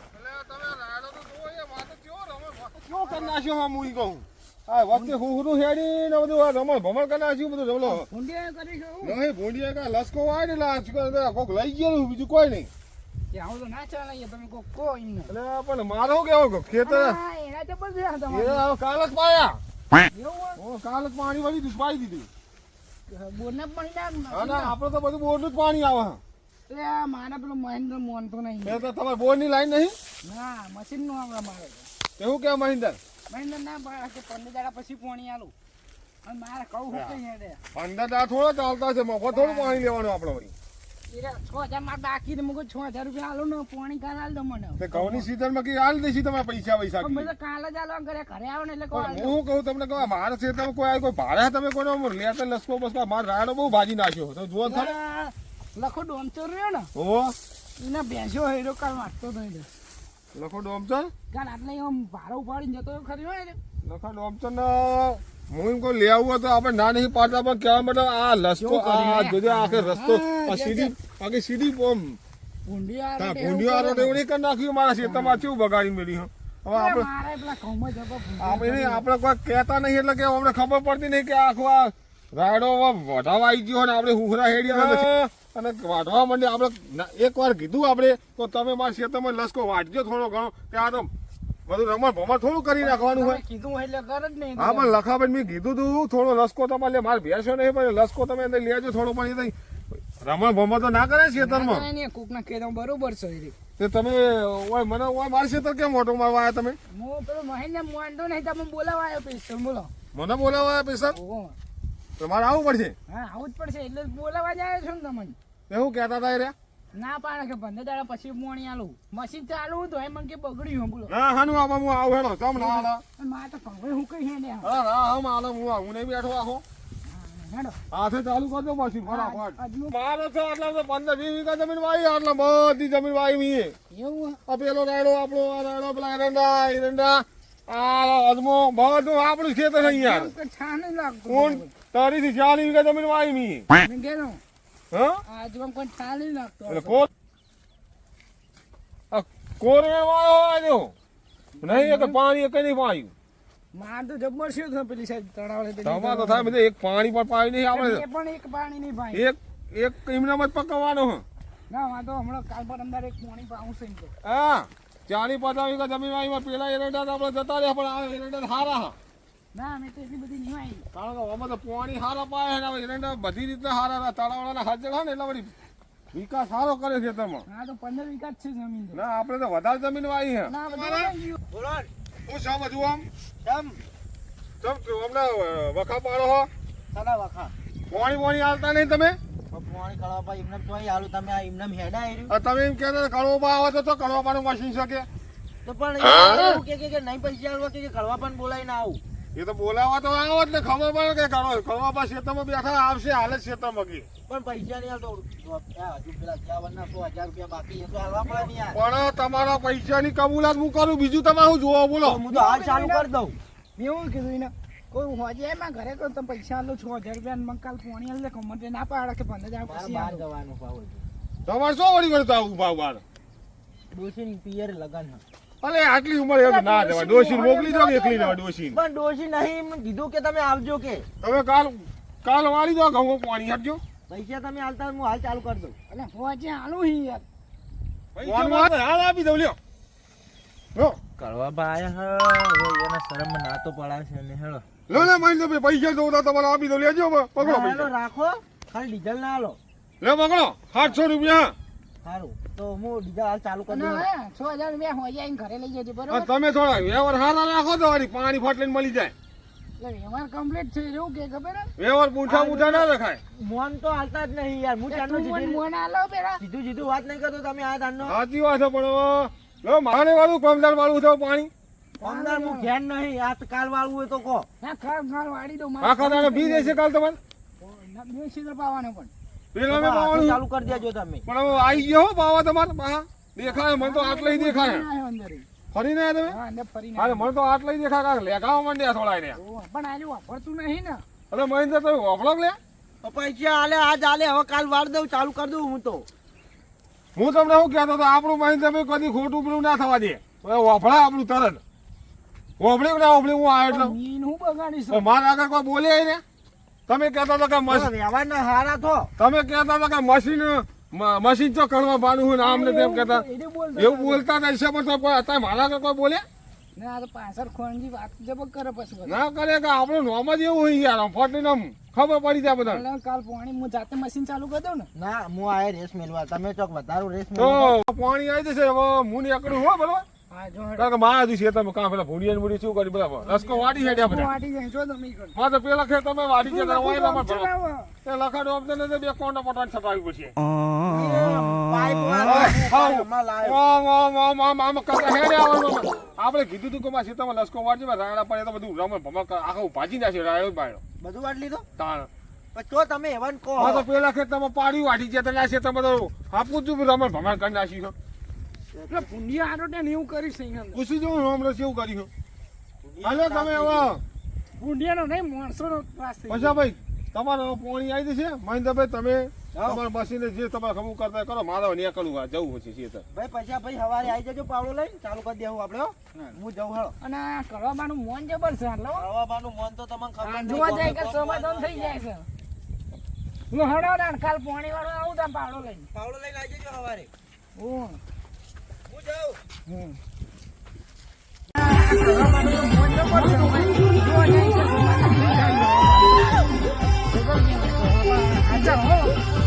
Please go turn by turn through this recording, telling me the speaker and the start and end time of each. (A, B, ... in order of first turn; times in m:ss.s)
0:00.1-0:08.1 A
0:02.9-0:03.4 B
0:07.8-0:09.2 B
0:09.0-0:12.7 A
0:13.3-0:15.3 B
0:15.3-0:17.2 A
0:16.8-0:18.6 B
0:18.3-0:19.6 A
0:20.0-0:20.6 B
0:20.6-0:22.3 A
0:23.1-0:24.7 B
0:24.3-0:26.2 A
0:26.7-0:28.8 B
0:28.6-0:30.0 A
0:30.2-0:31.9 B
0:32.2-0:33.0 A
0:33.3-0:35.5 B
0:36.2-0:37.6 B
0:36.9-0:37.2 A
0:37.7-0:40.5 A
0:39.3-0:39.9 B
0:41.1-0:45.3 B
0:44.8-0:47.3 A
0:47.0-0:49.4 B
0:48.9-0:55.0 A
0:54.6-0:56.9 B
0:56.9-0:57.3 A
0:57.8-0:59.7 B
1:00.3-1:01.1 A
1:01.3-1:03.6 B
1:03.8-1:12.2 A
1:08.6-1:10.9 B
1:12.6-1:14.2 B
1:13.2-1:17.1 A
1:15.0-1:15.4 B
1:16.7-1:19.0 B
1:18.4-1:31.1 A
1:31.7-1:33.4 A
1:32.8-1:35.0 B
1:34.6-1:41.8 A
1:41.4-1:43.5 B
1:43.8-1:46.8 A
1:46.9-1:49.9 B
1:50.1-1:51.2 A
1:51.1-1:51.6 B
1:52.2-1:52.9 A
1:53.1-1:55.4 B
1:55.7-1:56.5 A
1:56.9-2:01.1 B
2:01.1-2:03.0 A
2:02.5-2:04.7 B
2:04.6-2:06.6 A
2:07.0-2:07.8 B
2:07.9-2:13.7 A
2:09.0-2:10.0 B
2:13.9-2:14.4 B
2:14.5-2:20.3 A
2:19.8-2:21.7 B
2:21.3-2:23.7 A
2:23.8-2:24.4 B
2:24.9-2:25.2 A
2:25.3-2:27.0 B
2:26.7-2:27.1 A
2:29.1-2:30.9 A
2:31.6-2:32.2 B
2:31.6-2:33.1 A
2:33.7-2:36.6 B
2:35.8-2:38.0 A
2:37.7-2:39.3 B
2:39.1-2:41.2 A
2:41.7-2:44.1 B
2:44.2-2:49.0 A
2:49.5-2:50.8 B
2:50.9-2:55.5 A
2:56.1-2:57.4 A
2:57.5-2:59.0 B
2:58.9-3:01.1 A
3:00.4-3:01.4 B
3:01.5-3:01.9 C
3:02.3-3:03.0 A
3:03.4-3:03.8 C
3:04.6-3:06.5 A
3:06.9-3:07.5 C
3:07.9-3:09.2 A
3:09.5-3:12.3 C
3:12.3-3:15.1 A
3:15.6-3:19.0 C
3:19.3-3:24.0 A
3:24.3-3:28.8 C
3:28.7-3:32.2 A
3:32.0-3:33.4 C
3:32.3-3:33.1 B
3:33.8-3:40.2 B
3:39.6-3:41.0 C
3:41.5-3:43.0 A
3:43.9-3:45.2 C
3:45.6-3:48.8 A
3:46.4-3:48.4 B
3:48.7-3:51.0 C
3:51.2-3:53.8 A
3:54.1-3:55.8 C
3:55.9-3:57.2 B
3:58.2-3:59.6 A
3:58.3-3:58.7 C
4:01.2-4:05.1 C
4:04.9-4:07.9 A
4:07.4-4:09.6 C
4:10.0-4:11.5 A
4:12.0-4:14.0 C
4:13.7-4:16.3 B
4:16.1-4:19.1 A
4:19.8-4:21.7 B
4:21.8-4:23.2 A
4:22.2-4:25.6 C
4:24.9-4:26.4 B
4:26.4-4:28.2 C
4:28.0-4:31.5 A
4:32.0-4:32.7 B
4:32.0-4:34.5 C
4:34.6-4:36.8 B
4:35.8-4:37.2 A
4:37.6-4:39.1 B
4:39.5-4:40.4 A
4:39.7-4:41.3 C
4:41.3-4:44.8 A
4:43.4-4:45.4 B
4:45.7-4:46.4 A
4:46.2-4:47.3 B
4:47.0-4:49.4 A
4:49.3-4:51.0 B
4:51.3-4:52.6 A
4:53.0-4:56.1 C
4:57.2-5:01.6 A
5:02.6-5:03.9 A
5:03.7-5:05.0 B
5:04.9-5:06.2 A
5:06.9-5:07.9 A
5:07.7-5:09.1 C
5:09.2-5:13.2 A
5:12.4-5:14.2 B
5:13.8-5:16.2 A
5:16.8-5:19.2 B
5:19.1-5:22.8 A
5:22.6-5:24.9 B
5:24.9-5:27.7 C
5:27.3-5:30.0 A
5:30.3-5:30.9 B
5:30.8-5:34.3 A
5:33.2-5:35.4 B
5:35.3-5:37.5 A
5:36.4-5:37.9 B
5:38.0-5:40.4 A
5:40.8-5:43.6 C
5:42.2-5:50.8 A
5:51.0-5:51.6 C
5:51.8-5:52.1 A
5:52.5-5:53.9 C
5:53.6-5:57.9 A
5:58.7-5:59.1 C
5:58.9-6:00.8 B
6:00.7-6:02.1 A
6:02.8-6:04.0 C
6:03.0-6:04.0 A
6:04.6-6:06.6 B
6:06.3-6:13.0 A
6:09.5-6:09.8 C
6:13.1-6:17.0 C
6:17.0-6:19.0 B
6:18.9-6:22.0 C
6:20.2-6:22.2 B
6:23.5-6:25.9 B
6:25.9-6:27.1 C
6:27.6-6:28.0 B
6:28.9-6:29.4 C
6:29.7-6:30.0 B
6:31.5-6:36.5 B
6:37.1-6:39.2 B